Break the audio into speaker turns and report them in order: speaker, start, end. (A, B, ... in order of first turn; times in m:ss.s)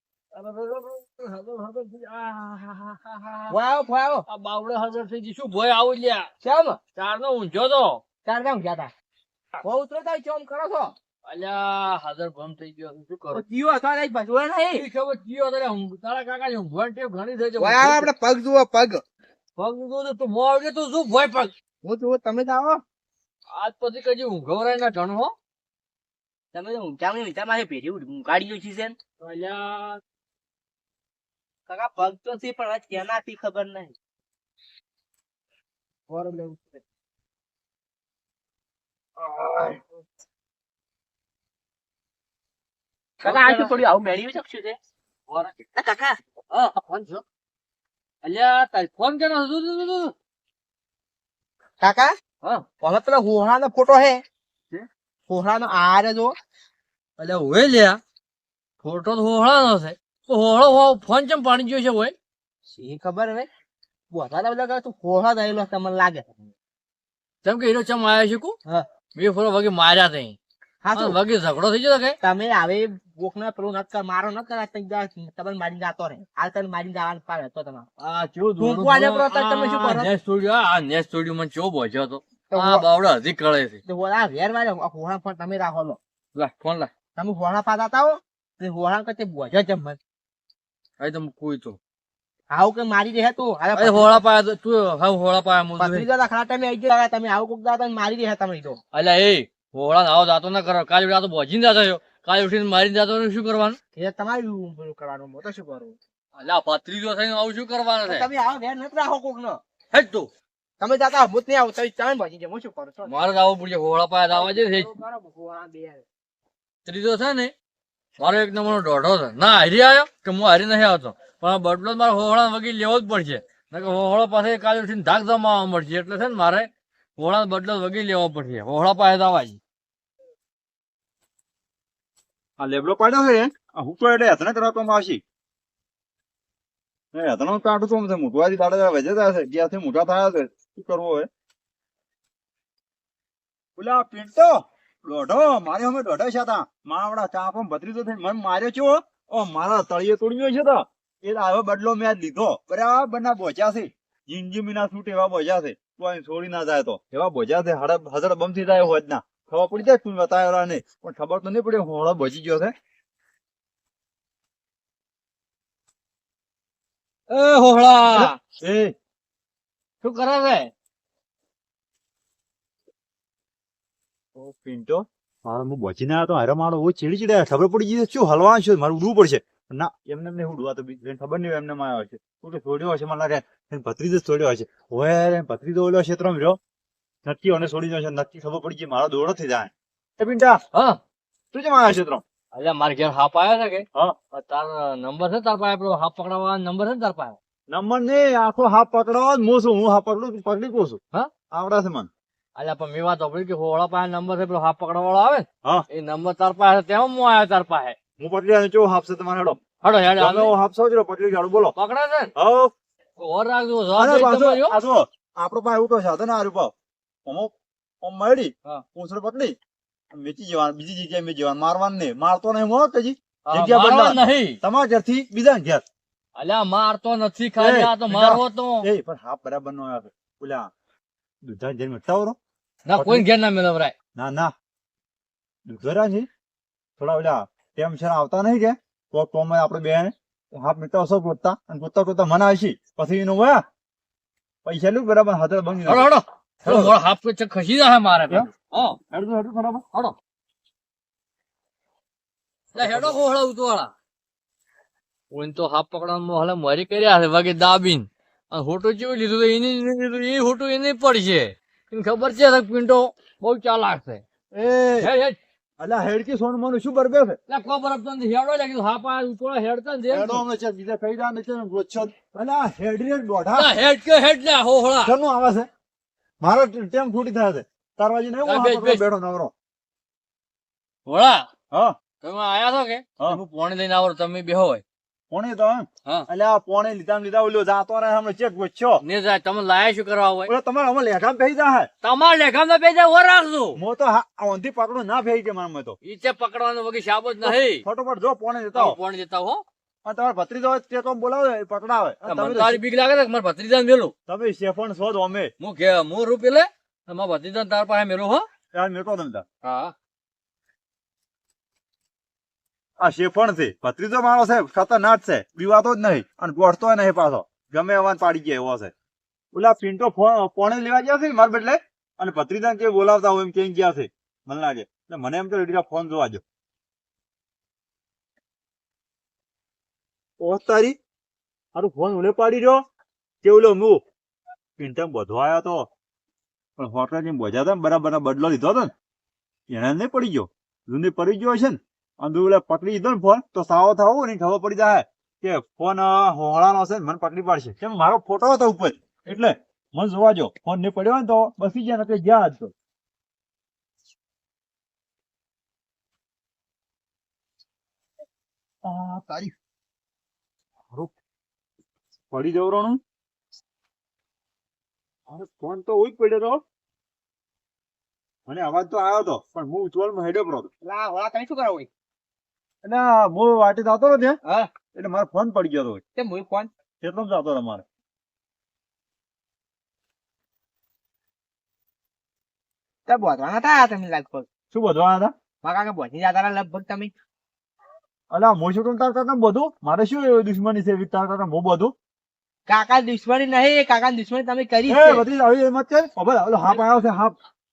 0:00.3-0:03.6 A
0:03.5-0:04.2 B
0:04.3-0:06.3 A
0:06.4-0:06.8 B
0:07.0-0:08.0 A
0:08.2-0:08.9 B
0:09.6-0:11.0 B
0:11.2-0:13.4 A
0:13.3-0:14.8 B
0:14.7-0:18.1 A
0:17.6-0:19.0 B
0:19.6-0:21.5 A
0:21.8-0:22.8 B
0:23.5-0:25.3 A
0:26.5-0:29.0 B
0:29.2-0:30.0 A
0:31.7-0:33.9 B
0:36.1-0:36.8 B
0:39.3-0:39.8 A
0:43.2-0:43.8 A
0:43.2-0:44.8 B
0:45.3-0:45.6 A
0:45.7-0:46.2 B
0:46.5-0:47.2 A
0:48.2-0:50.1 A
0:51.8-0:52.1 B
0:52.8-0:54.2 B
0:55.3-0:56.3 B
0:57.2-0:58.0 A
0:58.8-1:02.1 A
1:02.7-1:03.5 B
1:04.1-1:06.3 B
1:07.4-1:08.6 A
1:09.1-1:10.4 A
1:10.8-1:11.2 B
1:10.9-1:12.2 A
1:12.2-1:17.8 B
1:18.0-1:23.8 A
1:18.6-1:20.1 B
1:22.5-1:22.8 B
1:23.8-1:26.0 B
1:26.3-1:26.9 A
1:27.2-1:30.0 B
1:31.0-1:31.8 A
1:32.5-1:34.2 B
1:33.7-1:36.0 A
1:35.8-1:38.8 B
1:38.9-1:43.8 A
1:44.0-1:46.0 B
1:46.4-1:48.3 A
1:48.0-1:49.6 B
1:49.9-1:50.3 A
1:50.8-1:53.1 B
1:53.0-1:54.9 A
1:54.3-1:56.0 B
1:56.8-1:57.5 A
1:58.2-2:09.6 A
2:12.6-2:15.2 C
2:17.1-2:21.3 C
2:23.8-2:42.7 C
2:47.3-2:48.4 A
2:48.1-2:48.9 C
2:50.0-2:50.7 A
2:54.4-3:06.6 C
3:07.2-3:10.6 C
3:10.7-3:11.0 A
3:11.5-3:12.2 C
3:12.5-3:17.4 A
3:17.7-3:21.0 C
3:21.5-3:22.1 C
3:22.6-3:28.0 A
3:28.2-3:29.6 C
3:29.8-3:30.5 A
3:30.2-3:31.7 C
3:31.7-3:32.3 A
3:32.4-3:32.7 C
3:33.2-3:34.8 A
3:34.0-3:36.7 C
3:37.2-3:39.6 C
3:40.1-3:45.8 C
3:43.5-3:44.6 A
3:46.4-3:48.9 A
3:47.6-3:50.7 C
3:51.4-3:52.4 C
3:52.8-3:53.9 A
3:53.0-3:53.2 C
3:54.2-3:54.5 C
3:55.7-3:56.3 C
3:57.0-4:03.6 C
4:04.6-4:06.1 C
4:05.8-4:09.0 A
4:06.6-4:07.0 C
4:09.1-4:09.8 C
4:12.7-4:13.9 A
4:12.8-4:13.2 C
4:15.3-4:24.2 A
4:24.5-4:25.1 C
4:25.0-4:25.4 A
4:25.8-4:27.4 C
4:27.5-4:30.4 A
4:30.1-4:33.7 C
4:33.6-4:35.1 A
4:35.0-4:35.7 C
4:36.4-4:39.5 C
4:38.4-4:39.0 A
4:41.0-4:41.5 A
4:42.2-4:44.8 A
4:45.3-4:49.0 C
4:49.0-4:50.5 A
4:50.5-4:51.9 C
4:52.0-4:53.8 A
4:53.8-4:56.0 C
4:56.0-4:57.8 A
4:57.4-4:59.0 C
4:58.7-4:59.6 A
5:00.0-5:02.8 C
5:02.3-5:04.1 A
5:04.3-5:05.5 C
5:05.6-5:08.4 A
5:08.7-5:09.4 C
5:09.6-5:09.9 A
5:13.0-5:18.9 C
5:19.5-5:26.4 C
5:30.4-5:31.0 C
5:31.7-5:32.8 C
5:33.4-5:34.0 C
5:34.8-5:35.9 C
5:36.8-5:38.9 C
5:39.7-5:52.7 C
5:58.8-5:59.5 C
6:02.3-6:03.0 C
6:05.3-6:06.6 C
6:08.5-6:10.7 C
6:10.8-6:11.9 B
6:12.8-6:14.4 C
6:14.4-6:14.7 B
6:14.9-6:16.0 C
6:16.2-6:16.7 B
6:17.0-6:17.8 C
6:23.1-6:24.4 B
6:24.7-6:25.3 C
6:25.6-6:27.1 B
6:28.3-6:31.9 C
6:32.7-6:35.2 B
6:34.9-6:37.3 C